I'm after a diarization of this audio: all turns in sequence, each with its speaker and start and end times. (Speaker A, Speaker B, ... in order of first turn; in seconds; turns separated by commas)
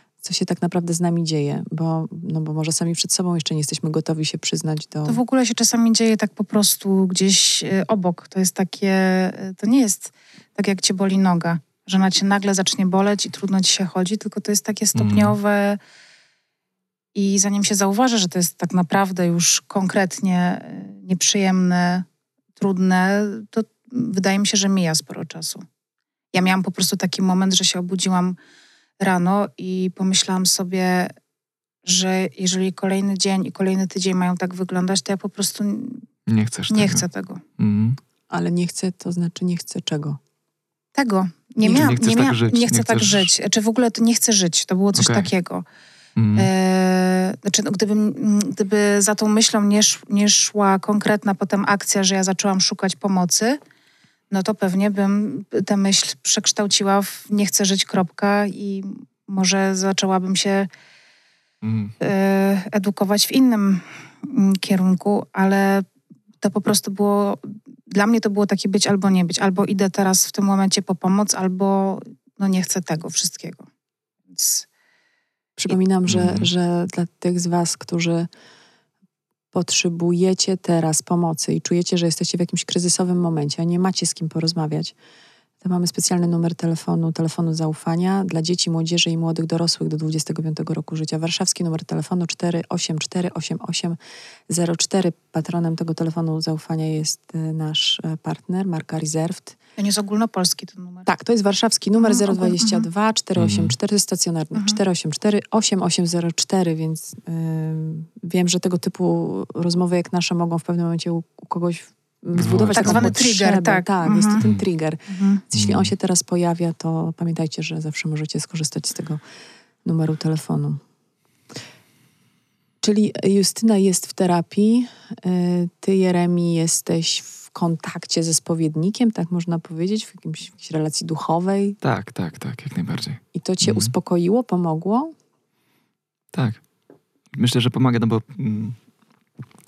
Speaker A: 0.2-5.2, Speaker B: 5.0-15.8, Speaker C: 14.9-15.3, Speaker B: 17.1-22.1, Speaker B: 22.6-25.6, Speaker B: 26.3-28.4, Speaker B: 29.0-31.1, Speaker B: 31.8-36.0, Speaker C: 36.3-37.0, Speaker B: 36.7-37.4, Speaker C: 37.6-38.0, Speaker A: 38.3-40.2, Speaker B: 41.0-45.6, Speaker A: 41.6-41.9, Speaker C: 41.7-43.3, Speaker C: 44.9-45.3, Speaker C: 46.1-46.5, Speaker B: 46.4-53.6, Speaker B: 54.3-60.7, Speaker C: 61.6-62.0, Speaker B: 62.0-65.8, Speaker B: 66.4-73.7, Speaker B: 74.3-74.7, Speaker A: 75.6-78.3, Speaker C: 76.1-76.5, Speaker A: 79.5-84.9, Speaker A: 85.6-94.0, Speaker A: 94.5-99.6, Speaker B: 99.8-101.1, Speaker A: 101.1-119.2, Speaker B: 102.0-102.9, Speaker C: 103.3-103.7, Speaker B: 104.5-104.8, Speaker C: 112.3-113.1, Speaker B: 112.7-114.4, Speaker B: 115.1-115.4, Speaker C: 115.5-115.9, Speaker A: 119.8-120.8, Speaker A: 122.8-131.8, Speaker C: 131.8-133.9, Speaker A: 133.3-135.1, Speaker C: 136.3-136.6, Speaker C: 137.3-138.8